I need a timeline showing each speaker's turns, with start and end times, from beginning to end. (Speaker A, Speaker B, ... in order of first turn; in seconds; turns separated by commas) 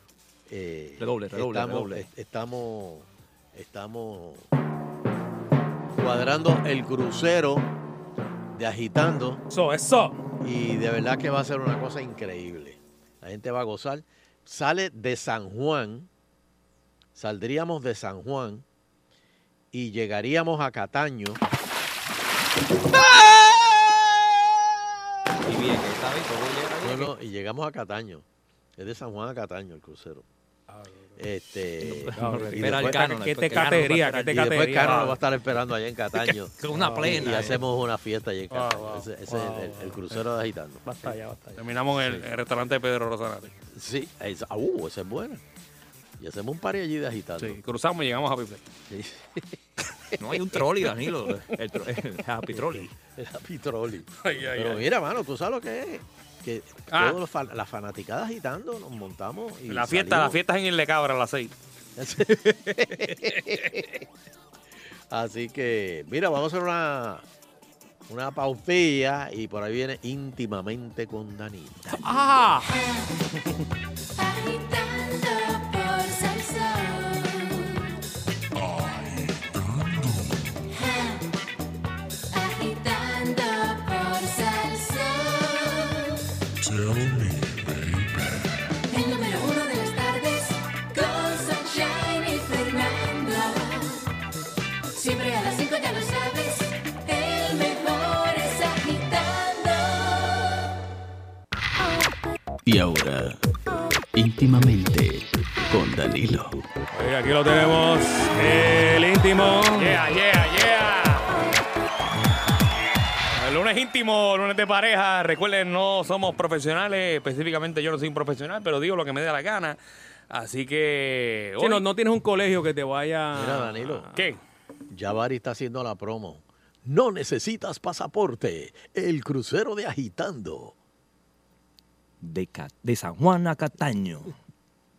Speaker A: 0.5-4.5, Speaker B: 1.0-2.0, Speaker A: 6.0-7.7, Speaker A: 8.5-9.4, Speaker C: 9.5-10.2, Speaker A: 10.4-16.1, Speaker A: 17.1-18.6, Speaker A: 19.7-21.4, Speaker B: 25.4-27.1, Speaker A: 26.8-28.2, Speaker A: 28.8-30.3, Speaker C: 30.7-31.2, Speaker A: 31.2-33.1, Speaker B: 31.8-34.9, Speaker C: 32.2-35.2, Speaker A: 34.2-41.1, Speaker D: 34.8-35.1, Speaker B: 36.3-37.6, Speaker C: 36.7-37.4, Speaker D: 38.5-39.1, Speaker C: 39.3-40.0, Speaker C: 40.9-41.5, Speaker D: 41.6-43.5, Speaker A: 43.7-45.4, Speaker A: 46.2-47.6, Speaker D: 47.4-48.6, Speaker A: 48.9-49.5, Speaker B: 50.2-52.9, Speaker C: 52.2-52.8, Speaker A: 53.2-60.4, Speaker D: 54.2-54.9, Speaker D: 56.9-57.2, Speaker D: 59.7-61.5, Speaker A: 62.0-64.0, Speaker A: 65.1-67.2, Speaker A: 68.1-72.1, Speaker C: 71.9-72.7, Speaker E: 72.7-73.2, Speaker E: 74.2-77.9, Speaker E: 80.7-81.2, Speaker E: 82.3-86.2, Speaker E: 88.9-94.1, Speaker E: 94.9-100.6, Speaker F: 102.7-103.4, Speaker F: 104.2-106.6, Speaker C: 107.0-110.0, Speaker D: 109.8-111.4, Speaker D: 113.3-119.8, Speaker D: 120.3-121.8, Speaker C: 121.6-124.2, Speaker A: 123.3-124.1, Speaker D: 124.2-124.4, Speaker A: 124.9-130.8, Speaker B: 132.2-134.3